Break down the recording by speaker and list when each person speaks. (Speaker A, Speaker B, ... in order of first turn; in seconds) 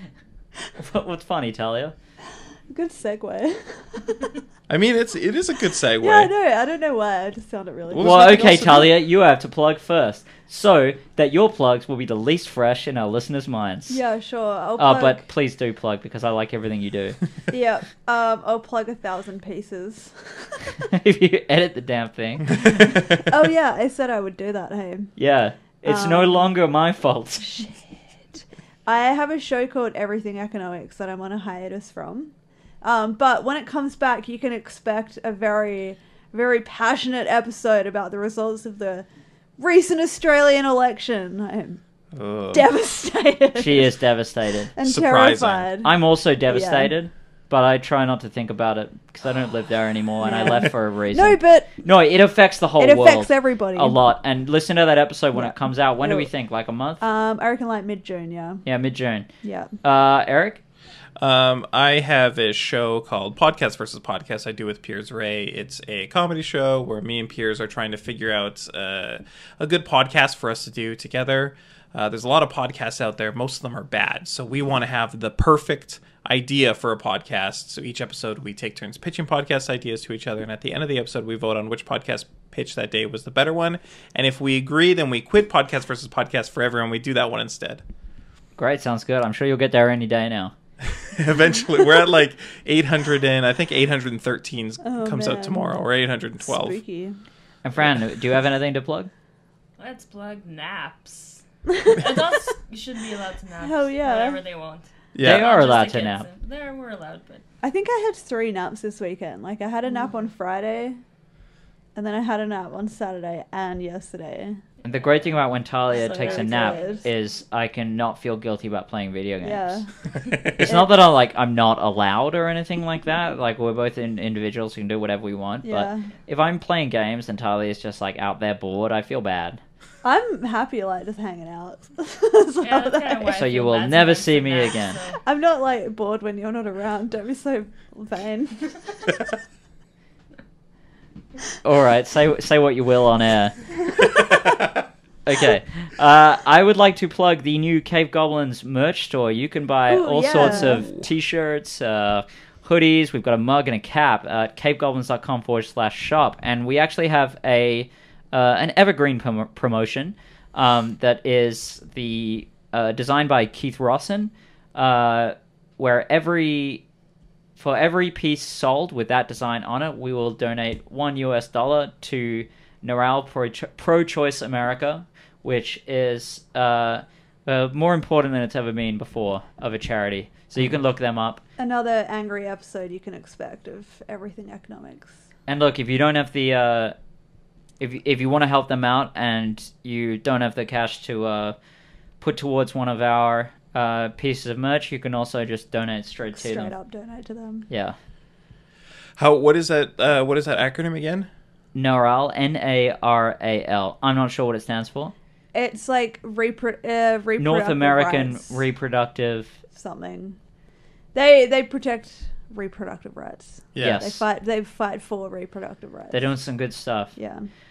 Speaker A: 0.8-1.9, 8.0-14.0, 14.8-17.2, 20.8-23.5, 25.2-27.6, 43.6-44.7, 45.8-57.0, 58.6-59.3, 59.8-60.6, 88.6-90.5, 97.6-99.1, 105.2-106.3, 114.8-119.8, 120.6-129.6, 133.3-135.0, 141.6-143.5, 145.3-166.8, 167.6-181.4, 185.5-186.9, 187.8-191.6, 192.2-196.7, 197.7-198.0, 201.8-205.1, 207.4-209.6, 213.8-214.2, 216.1-217.1
Speaker B: 2.7-4.3, 6.0-8.9, 13.9-15.3, 17.5-20.7, 22.5-25.1, 25.9-26.5, 28.4-39.1, 39.6-41.8, 42.5-44.0, 44.8-46.9, 50.2-51.7, 52.8-54.0, 55.4-56.3, 57.0-58.6, 59.4-59.7, 94.8-95.8, 96.4-97.2, 101.7-102.1, 103.6-104.4, 107.6-111.0, 112.0-114.6, 116.0-117.0, 119.4-119.9, 120.5-120.9, 125.6-126.1, 130.0-133.4, 135.2-139.3, 149.9-150.9, 181.6-185.1, 196.3-197.7, 205.5-208.6, 209.7-210.4, 211.1-216.2, 217.2-217.5
Speaker C: 4.7-6.3, 7.9-8.9, 42.1-42.7, 44.8-45.7, 61.2-87.8, 90.8-96.8, 105.1-105.5, 120.2-120.5, 144.0-144.8, 199.2-201.3, 213.8-214.0
Speaker D: 99.8-107.4, 115.9-117.1, 132.6-135.2